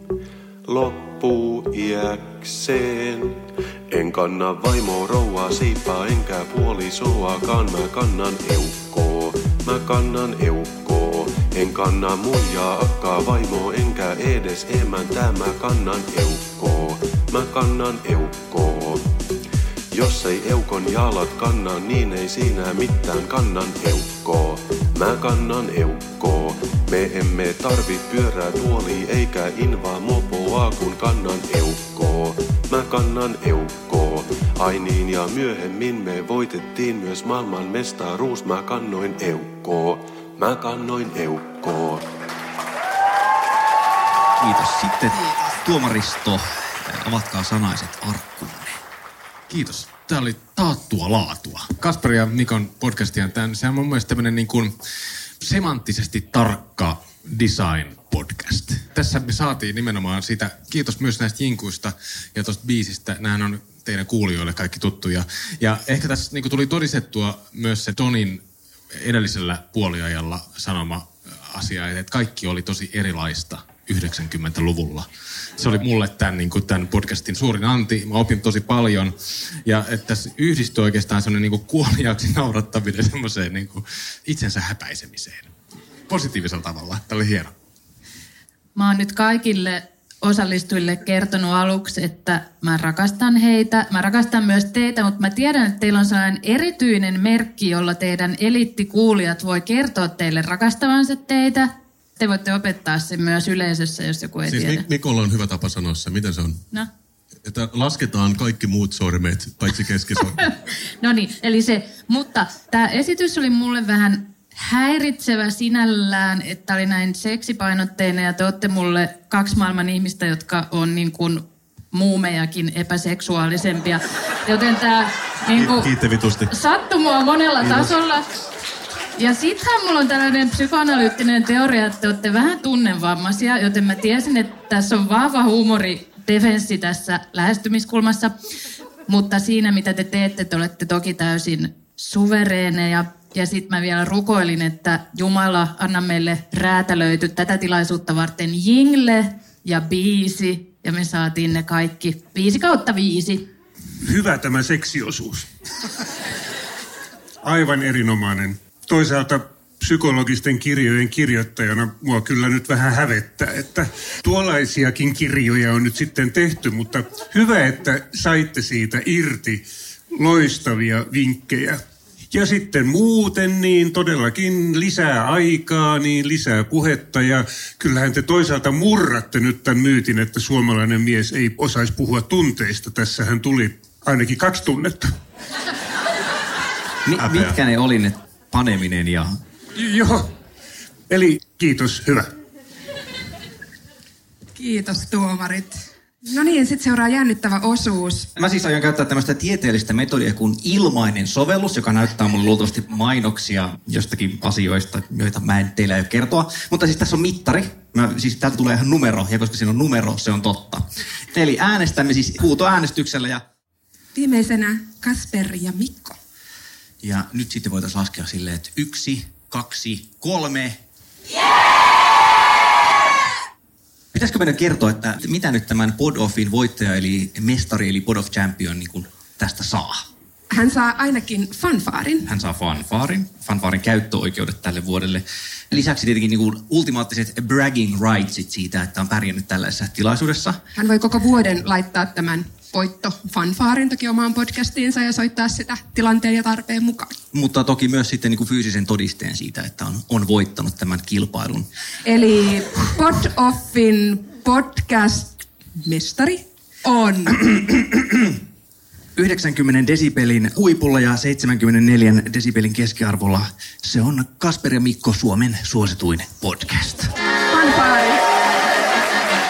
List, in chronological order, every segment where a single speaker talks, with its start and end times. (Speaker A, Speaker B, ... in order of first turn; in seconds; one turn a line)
Speaker A: 0.7-19.1
Speaker A: 19.9-42.1
Speaker B: 44.4-48.8
Speaker C: 49.5-54.8
Speaker C: 55.4-85.5
Speaker C: 86.1-87.5
Speaker D: 88.8-104.9
Speaker E: 104.5-106.6
Speaker E: 107.5-110.5
Speaker D: 111.0-125.9
Speaker E: 125.5-126.5
Speaker D: 126.5-128.3
Speaker E: 127.6-127.9
Speaker D: 129.2-138.4
Speaker D: 139.1-153.5
Speaker F: 154.0-155.5
Speaker F: 157.4-185.2
Speaker B: 187.1-189.4
Speaker F: 187.2-187.5
Speaker F: 189.8-190.3
Speaker F: 191.1-192.3
Speaker G: 194.6-198.3
Speaker B: 198.4-213.4
Speaker G: 214.1-216.2
Speaker B: 217.0-220.8
Speaker B: 224.1-230.1
Speaker G: 230.5-232.3
Speaker B: 232.3-240.6
Speaker G: 240.8-247.2
Speaker B: 247.3-251.7
Speaker G: 252.1-257.4
Speaker B: 257.4-258.4
Speaker B: 259.2-267.1
Speaker G: 267.5-268.2